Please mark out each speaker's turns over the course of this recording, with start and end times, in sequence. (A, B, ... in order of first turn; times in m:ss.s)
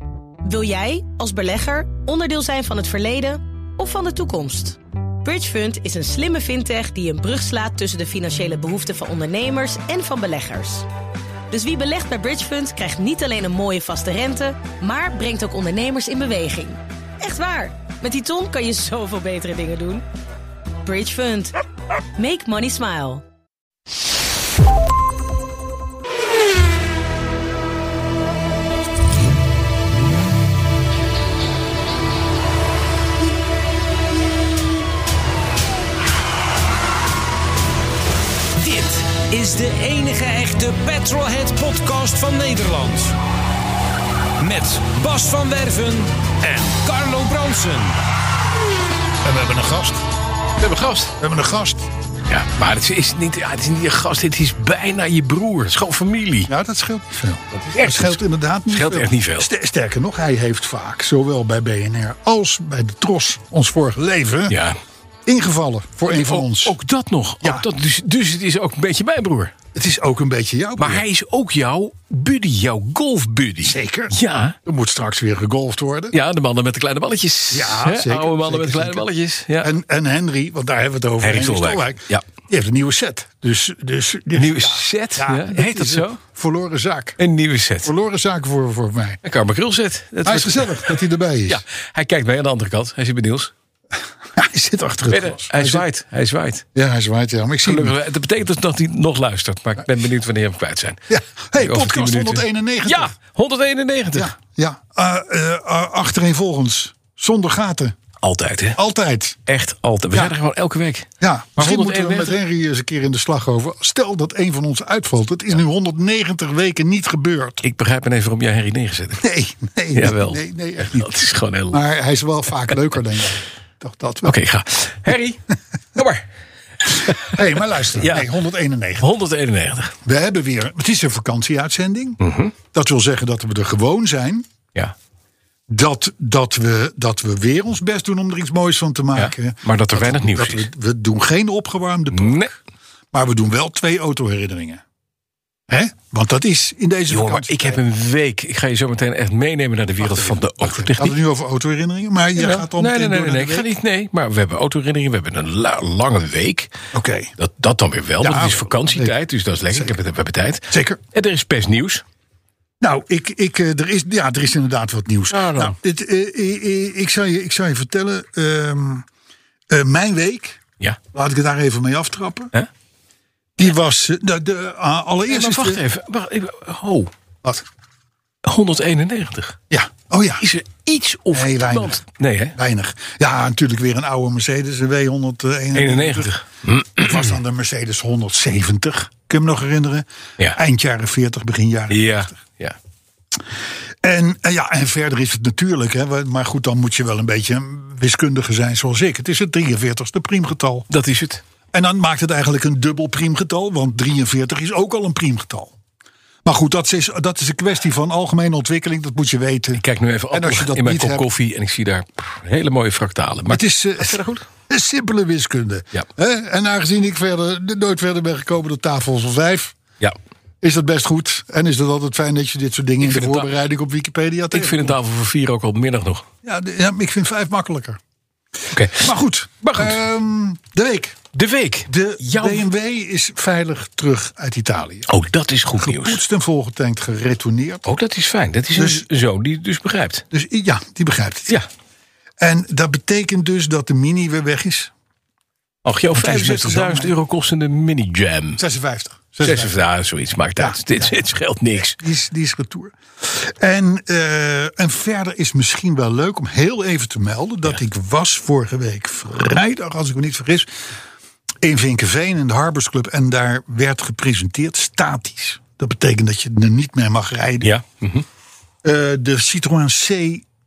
0:00.4-0:10.9 A
0:11.5-0:20.0 A
0:20.8-0:21.5 A
0:22.2-0:23.2 A
0:38.6-0:43.1 B
0:44.4-0:47.9 B
0:49.2-0:50.0 C
0:50.6-0:51.1 D
0:51.2-0:51.9 C
0:52.3-0:56.5 D
0:56.5-1:04.6 C
0:57.5-0:59.5 D
1:04.5-1:04.8 D
1:05.2-1:06.8 C
1:06.1-1:09.6 D
1:07.4-1:07.7 C
1:09.7-1:11.0 C
1:10.8-1:14.6 D
1:13.6-1:16.2 C
1:16.1-1:19.7 D
1:17.5-1:19.1 C
1:19.6-1:27.2 C
1:21.2-1:22.2 D
1:24.3-1:26.2 D
1:27.2-1:27.9 D
1:27.8-1:29.2 C
1:29.2-1:33.5 D
1:30.2-1:31.6 C
1:34.4-1:35.8 C
1:35.1-1:36.6 D
1:36.7-1:38.0 C
1:37.6-1:41.0 D
1:41.1-1:43.1 C
1:41.6-1:44.3 D
1:44.1-1:48.0 C
1:48.2-1:48.8 D
1:48.7-1:49.4 C
1:49.5-1:52.4 D
1:51.2-1:57.6 C
1:57.6-1:59.2 D
1:59.2-2:01.1 C
1:59.9-2:01.8 D
2:01.7-2:04.4 C
2:04.2-2:05.4 D
2:06.0-2:06.2 D
2:06.9-2:07.4 D
2:07.0-2:09.1 C
2:08.0-2:08.3 D
2:09.0-2:09.9 D
2:10.0-2:12.2 C
2:12.2-2:12.5 D
2:12.7-2:14.5 C
2:15.7-2:22.5 C
2:19.2-2:20.7 D
2:22.1-2:22.5 D
2:23.1-2:24.8 C
2:25.7-2:27.8 C
2:27.1-2:31.2 D
2:30.0-2:33.7 C
2:32.4-2:36.7 D
2:36.9-2:37.3 C
2:37.4-2:42.0 D
2:38.2-2:39.2 C
2:39.7-2:40.0 C
2:40.7-2:41.0 C
2:42.8-2:49.1 C
2:45.3-2:45.8 D
2:49.7-2:50.6 C
2:51.1-2:52.5 C
2:53.6-2:55.8 C
2:55.3-2:57.1 D
2:58.5-2:59.6 D
2:59.7-3:00.4 C
3:00.4-3:02.6 D
3:01.3-3:02.0 C
3:02.6-3:06.3 C
3:05.7-3:07.4 D
3:07.0-3:12.3 C
3:11.9-3:12.8 D
3:14.0-3:20.9 C
3:20.9-3:21.4 D
3:21.7-3:25.7 C
3:26.4-3:31.3 C
3:29.8-3:34.4 D
3:33.5-3:39.8 C
3:40.6-3:45.0 C
3:43.0-3:43.5 D
3:44.5-3:46.2 D
3:46.4-3:48.0 C
3:48.7-3:49.1 D
3:48.8-3:51.2 C
3:49.6-3:50.0 D
3:51.3-3:52.7 D
3:51.9-3:55.1 C
3:55.1-3:56.2 D
3:55.8-3:57.9 C
3:57.8-4:00.2 D
3:58.8-3:59.1 C
4:00.3-4:01.6 C
4:02.4-4:04.9 C
4:05.8-4:08.6 D
4:06.2-4:07.1 C
4:08.6-4:09.7 C
4:09.4-4:12.0 D
4:10.6-4:11.1 C
4:12.0-4:20.7 C
4:21.6-4:27.7 C
4:27.6-4:28.2 D
4:28.8-4:30.4 C